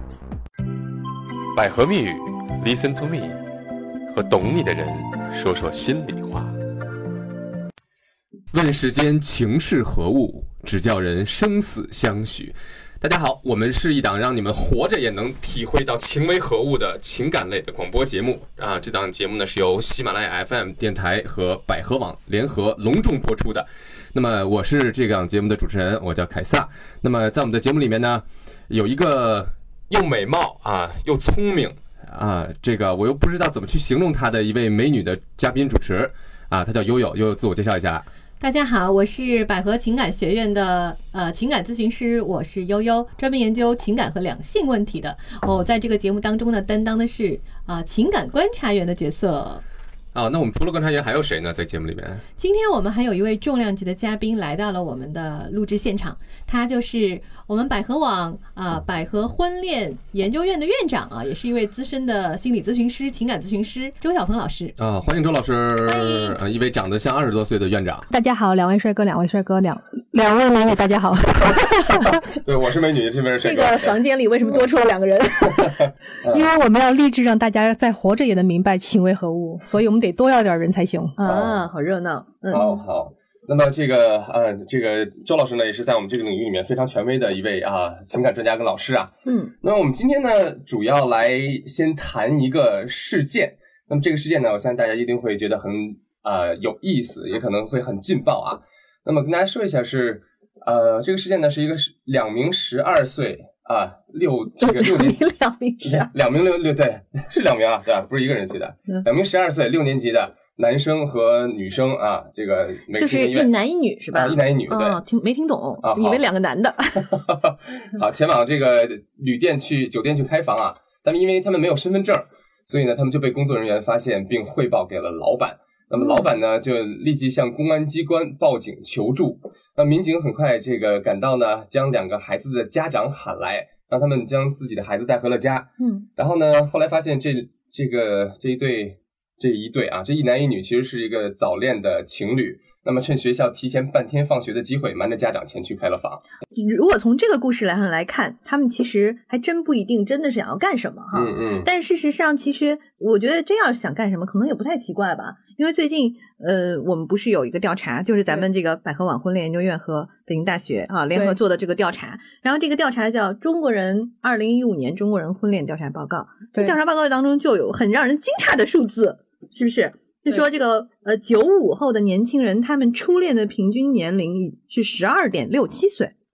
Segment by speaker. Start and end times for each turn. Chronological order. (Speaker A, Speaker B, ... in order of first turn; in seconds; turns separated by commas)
Speaker A: 1.5-3.4, Speaker A: 4.1-6.5, Speaker B: 8.5-38.1, Speaker C: 38.4-49.6, Speaker B: 50.1-52.2, Speaker C: 52.4-64.8, Speaker B: 64.8-68.1, Speaker D: 68.1-72.2, Speaker B: 72.3-74.6, Speaker E: 73.4-75.8, Speaker B: 75.5-76.5, Speaker D: 76.3-81.1, Speaker E: 81.2-82.7, Speaker B: 81.2-81.6, Speaker B: 82.5-105.2, Speaker E: 89.2-89.5, Speaker E: 104.6-106.1, Speaker B: 105.8-113.5, Speaker E: 112.9-117.2, Speaker B: 114.1-115.0, Speaker B: 115.8-116.2, Speaker B: 117.1-146.2, Speaker E: 126.0-126.2, Speaker E: 135.8-136.1, Speaker E: 146.6-176.1, Speaker B: 151.1-151.7